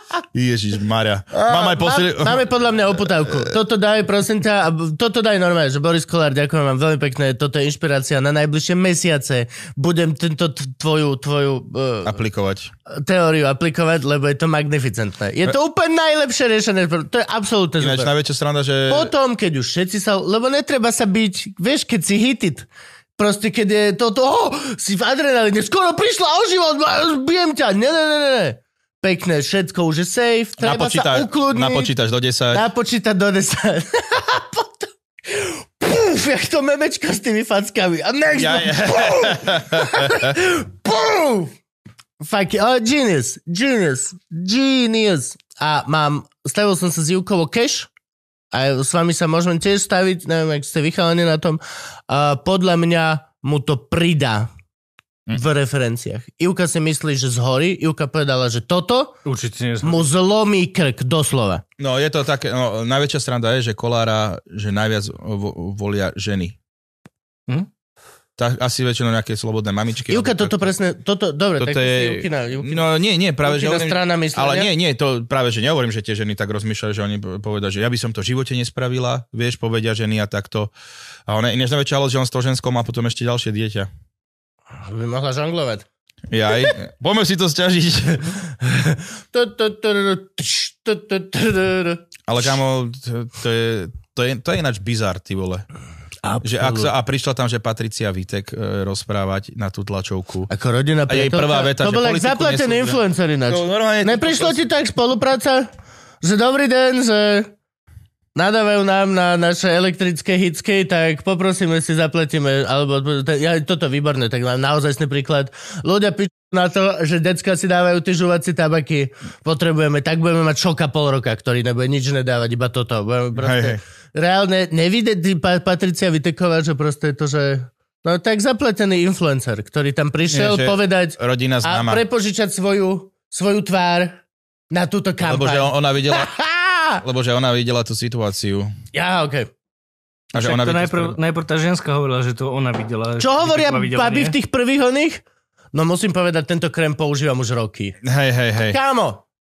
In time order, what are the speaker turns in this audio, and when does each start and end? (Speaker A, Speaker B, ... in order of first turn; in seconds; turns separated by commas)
Speaker A: 0.3-2.5, Speaker B: 1.3-12.2, Speaker A: 12.1-12.7, Speaker B: 12.9-18.1, Speaker A: 17.8-19.1, Speaker B: 18.9-31.9, Speaker A: 30.6-32.6, Speaker B: 32.5-41.5, Speaker A: 38.3-40.4, Speaker B: 42.2-47.9, Speaker B: 48.5-54.5, Speaker B: 55.3-59.2, Speaker C: 59.2-60.1, Speaker B: 59.8-61.6, Speaker A: 61.8-66.6, Speaker A: 68.4-70.7, Speaker B: 70.1-72.9, Speaker A: 71.6-80.7, Speaker B: 73.4-74.7, Speaker A: 81.3-83.9, Speaker B: 84.8-85.9, Speaker A: 86.3-88.4, Speaker B: 88.6-92.5, Speaker A: 92.3-95.7, Speaker B: 96.2-96.9, Speaker A: 96.4-100.5, Speaker B: 100.5-105.7, Speaker A: 101.1-104.7, Speaker B: 106.2-107.5, Speaker B: 108.3-134.2, Speaker A: 123.4-123.8, Speaker A: 130.3-132.0, Speaker B: 134.7-137.0, Speaker A: 135.2-136.3, Speaker A: 137.0-138.7, Speaker B: 138.9-139.5, Speaker A: 140.3-141.2, Speaker C: 140.4-144.4, Speaker B: 143.2-147.9, Speaker A: 148.0-148.8, Speaker B: 148.7-149.2